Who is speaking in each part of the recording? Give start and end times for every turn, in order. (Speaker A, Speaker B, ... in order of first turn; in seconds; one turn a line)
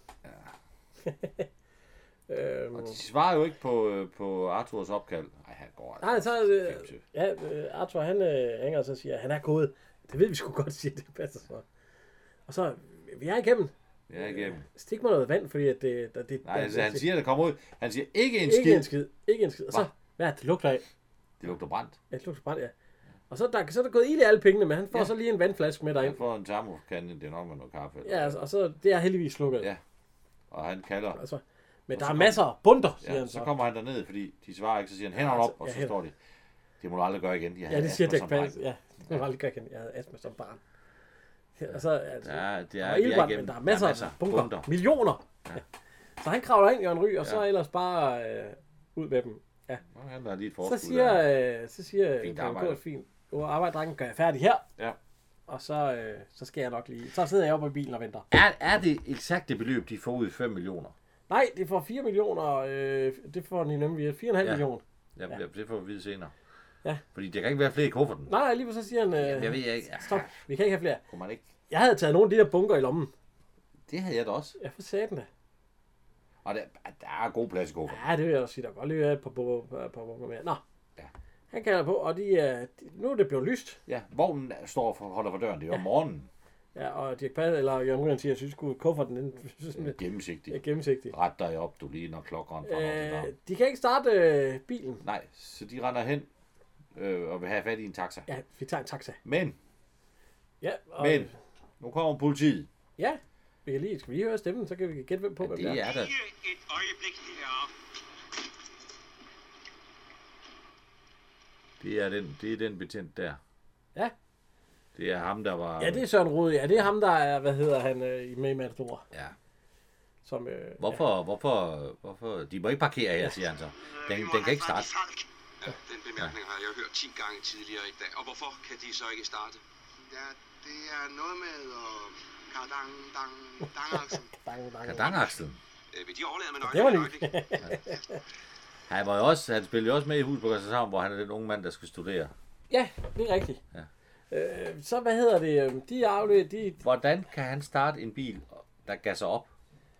Speaker A: 0.2-0.5
Speaker B: 1.0-1.5
Speaker B: 2.3-3.0
Speaker A: 2.7-7.0
Speaker B: 6.0-11.6
Speaker B: 12.5-17.0
Speaker A: 14.1-14.7
Speaker A: 16.4-18.9
Speaker B: 18.4-20.9
Speaker A: 21.4-22.0
Speaker B: 22.1-22.7
Speaker B: 23.3-26.2
Speaker A: 26.0-28.4
Speaker B: 28.0-29.7
Speaker A: 30.5-31.2
Speaker B: 31.1-33.5
Speaker A: 31.9-32.5
Speaker A: 33.0-36.1
Speaker B: 35.2-36.0
Speaker A: 36.8-38.6
Speaker B: 37.7-40.6
Speaker B: 41.6-45.2
Speaker A: 41.7-44.7
Speaker B: 46.2-49.8
Speaker A: 49.9-51.2
Speaker B: 50.6-54.6
Speaker A: 52.2-52.8
Speaker B: 55.5-58.3
Speaker A: 58.3-60.9
Speaker B: 61.3-65.4
Speaker A: 64.4-66.3
Speaker A: 67.1-68.3
Speaker B: 68.3-71.0
Speaker A: 69.2-70.4
Speaker A: 71.1-71.5
Speaker B: 71.7-73.1
Speaker A: 73.9-74.5
Speaker B: 74.6-75.3
Speaker A: 76.4-78.0
Speaker B: 77.9-80.6
Speaker B: 81.5-83.8
Speaker A: 83.9-86.3
Speaker B: 86.7-90.0
Speaker A: 89.7-93.3
Speaker B: 90.5-91.1
Speaker B: 92.7-95.0
Speaker A: 95.0-96.3
Speaker A: 96.9-98.3
Speaker B: 98.3-99.2
Speaker A: 99.2-99.6
Speaker B: 100.6-101.3
Speaker A: 101.0-101.3
Speaker A: 101.8-102.7
Speaker B: 103.0-105.8
Speaker A: 105.4-106.1
Speaker C: 105.8-107.7
Speaker A: 111.8-113.4
Speaker A: 114.9-116.0
Speaker B: 115.8-119.0
Speaker B: 120.2-121.0
Speaker A: 120.8-124.9
Speaker C: 123.8-134.3
Speaker B: 134.3-135.3
Speaker A: 134.8-135.6
Speaker C: 135.9-137.3
Speaker B: 136.7-138.2
Speaker A: 138.9-142.3
Speaker B: 142.7-143.6
Speaker B: 144.3-146.8
Speaker A: 146.8-149.5